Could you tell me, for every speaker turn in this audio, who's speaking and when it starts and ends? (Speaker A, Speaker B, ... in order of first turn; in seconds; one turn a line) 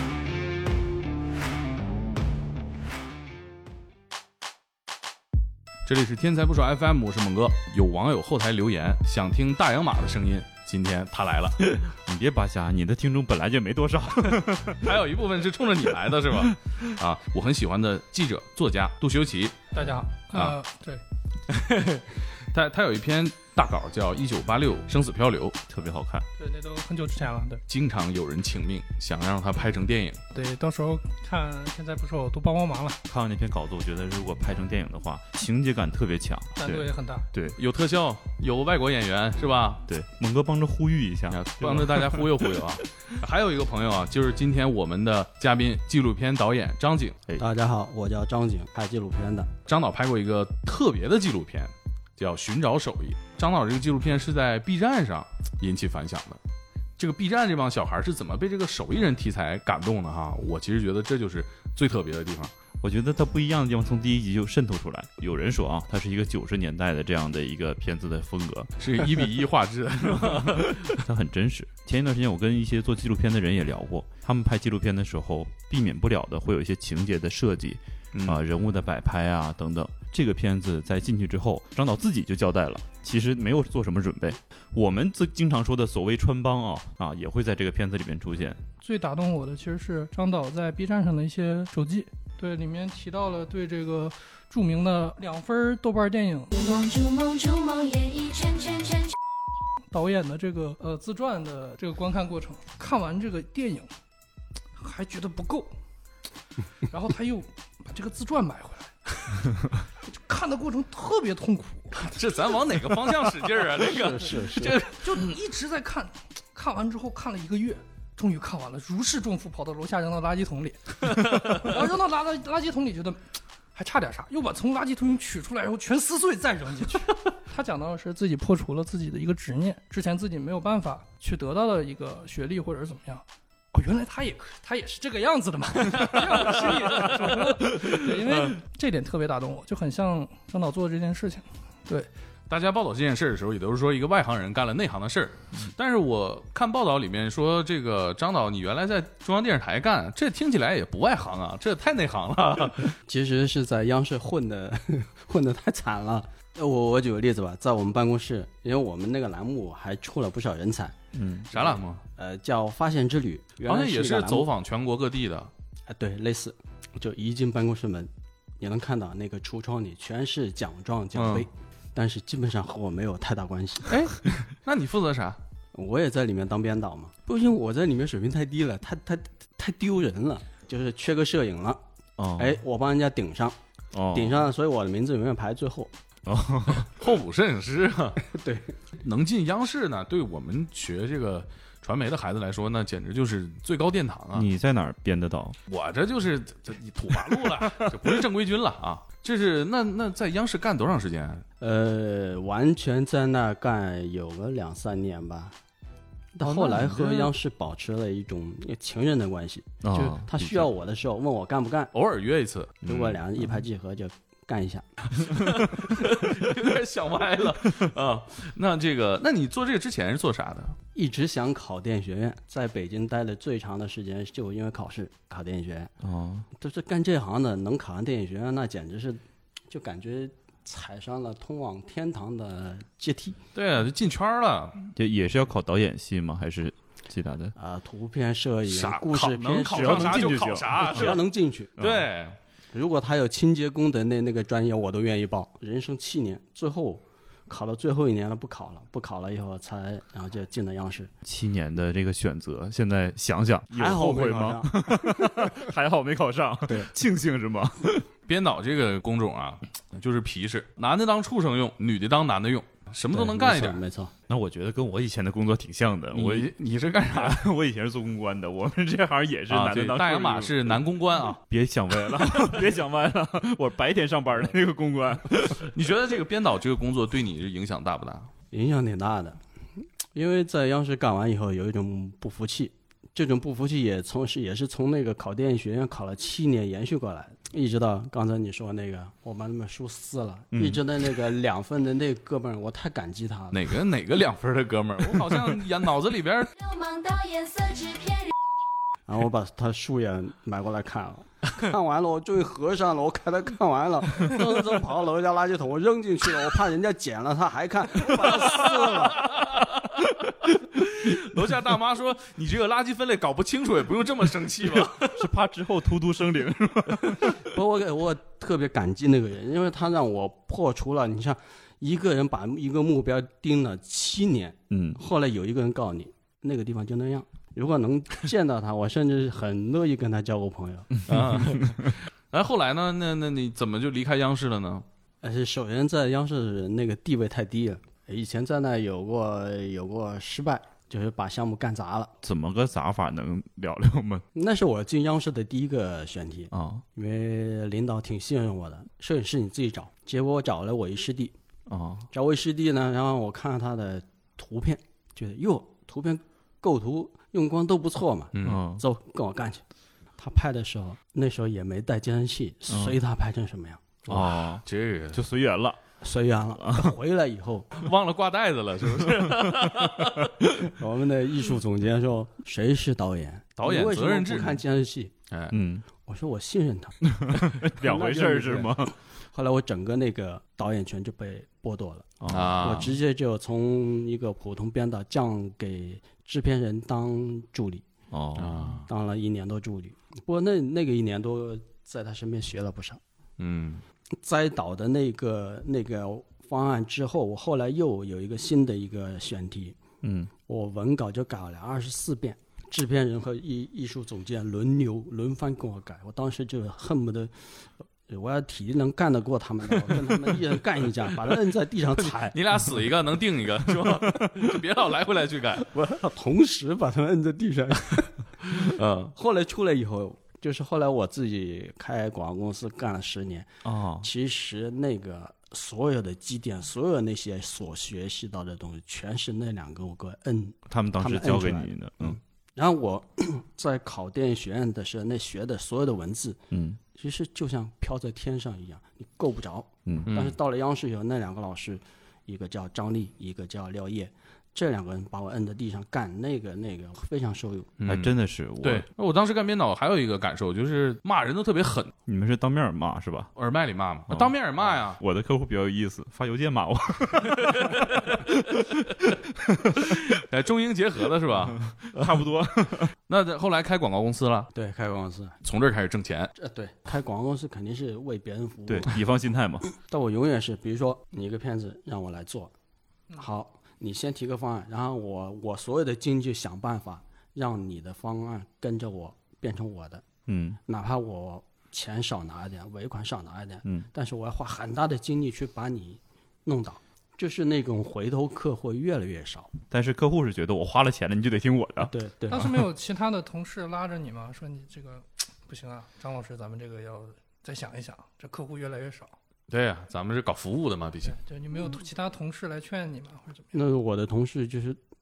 Speaker A: 5.8-11.6
Speaker B: 11.7-15.0
Speaker A: 14.8-19.7
Speaker C: 19.7-21.0
Speaker A: 20.3-20.6
Speaker A: 21.5-25.6
Speaker B: 25.7-26.2
Speaker C: 26.4-27.6
Speaker A: 27.7-30.2
Speaker C: 30.3-33.0
Speaker B: 33.1-37.6
Speaker C: 36.6-37.2
Speaker A: 37.6-39.8
Speaker B: 39.9-42.8
Speaker A: 41.3-47.2
Speaker D: 47.4-49.5
Speaker A: 49.7-56.4
Speaker A: 57.0-62.5
Speaker B: 62.8-68.7
Speaker A: 68.8-71.0
Speaker B: 70.1-88.6
Speaker A: 78.1-78.4
Speaker C: 88.8-96.5
Speaker E: 96.5-99.1
Speaker C: 99.9-103.9
Speaker C: 104.8-105.7
Speaker C: 106.9-112.1
Speaker A: 112.0-115.3
Speaker D: 113.8-114.8
Speaker C: 115.0-123.2
Speaker A: 121.1-121.7
Speaker C: 123.7-142.1
Speaker A: 136.9-137.2
Speaker B: 137.6-138.3
Speaker A: 142.5-152.9
Speaker D: 153.1-160.9
Speaker B: 161.1-161.5
Speaker A: 161.5-162.0
Speaker D: 161.5-164.5
Speaker A: 163.7-165.5
Speaker D: 165.9-174.0
Speaker A: 171.1-171.5
Speaker A: 173.9-175.4
Speaker D: 175.7-181.8
Speaker B: 182.2-182.6
Speaker D: 182.4-183.6
Speaker B: 183.9-184.4
Speaker D: 184.1-185.9
Speaker B: 186.2-186.9
Speaker A: 186.8-188.2
Speaker D: 188.2-188.7
Speaker A: 189.0-194.5
Speaker B: 194.3-195.6
Speaker A: 195.7-201.4
Speaker D: 201.6-205.5
Speaker D: 206.3-211.9
Speaker A: 206.4-207.3
Speaker B: 209.8-210.7
Speaker A: 211.9-212.8
Speaker B: 212.8-213.4
Speaker D: 212.8-215.2
Speaker A: 215.2-220.8
Speaker D: 220.9-225.9
Speaker B: 226.0-226.5
Speaker D: 226.5-233.4
Speaker A: 233.5-234.8
Speaker B: 234.9-237.5
Speaker D: 237.6-241.7
Speaker A: 238.7-241.2
Speaker B: 239.7-241.2
Speaker A: 241.8-242.4
Speaker B: 241.8-242.1
Speaker D: 242.7-251.1
Speaker B: 251.2-258.1
Speaker D: 253.7-255.6
Speaker A: 258.3-263.8
Speaker D: 263.1-264.1
Speaker B: 264.3-266.5
Speaker A: 266.1-267.5
Speaker B: 267.1-275.7
Speaker A: 269.5-271.4
Speaker A: 275.6-278.3
Speaker D: 278.5-279.4
Speaker D: 280.1-293.6
Speaker B: 290.5-290.8
Speaker A: 293.5-296.5
Speaker E: 296.6-298.3
Speaker D: 299.1-309.2
Speaker A: 309.0-315.3
Speaker B: 315.1-317.4
Speaker D: 317.3-331.1
Speaker B: 324.7-325.0
Speaker A: 331.1-334.8
Speaker D: 335.2-342.1
Speaker B: 342.2-344.2
Speaker D: 344.3-351.3
Speaker B: 346.5-346.8
Speaker B: 351.7-352.1
Speaker D: 352.1-359.6
Speaker A: 358.3-358.6
Speaker B: 358.4-358.8
Speaker D: 360.2-364.2
Speaker B: 362.7-363.0
Speaker B: 364.1-365.8
Speaker A: 364.6-365.2
Speaker D: 366.0-367.7
Speaker B: 366.5-366.9
Speaker A: 367.8-370.4
Speaker B: 369.0-369.5
Speaker D: 370.7-375.1
Speaker A: 373.6-374.6
Speaker A: 375.3-375.6
Speaker B: 375.5-375.8
Speaker D: 376.0-387.8
Speaker B: 377.1-378.9
Speaker B: 382.2-382.9
Speaker A: 382.3-382.9
Speaker B: 388.1-388.7
Speaker A: 388.4-388.9
Speaker D: 388.9-393.0
Speaker A: 393.4-393.8
Speaker D: 394.2-399.8
Speaker B: 400.0-400.3
Speaker D: 400.5-412.3
Speaker A: 412.0-415.6
Speaker D: 415.6-436.4
Speaker A: 418.5-419.1
Speaker B: 423.6-424.1
Speaker B: 430.7-432.2
Speaker B: 436.5-436.8
Speaker D: 436.9-447.7
Speaker B: 439.9-440.1
Speaker A: 440.1-440.4
Speaker A: 447.8-451.9
Speaker B: 447.9-448.9
Speaker B: 452.1-453.3
Speaker A: 453.4-455.0
Speaker B: 454.1-460.2
Speaker A: 459.9-462.1
Speaker B: 461.5-462.9
Speaker A: 463.1-464.5
Speaker D: 464.5-465.4
Speaker A: 465.4-466.3
Speaker D: 466.4-469.0
Speaker B: 468.7-469.7
Speaker D: 469.7-472.5
Speaker D: 473.1-480.0
Speaker B: 480.3-480.6
Speaker D: 480.7-489.5
Speaker B: 489.7-492.7
Speaker D: 491.9-492.5
Speaker C: 492.3-499.1
Speaker A: 499.5-501.1
Speaker C: 501.1-503.5
Speaker D: 503.5-504.8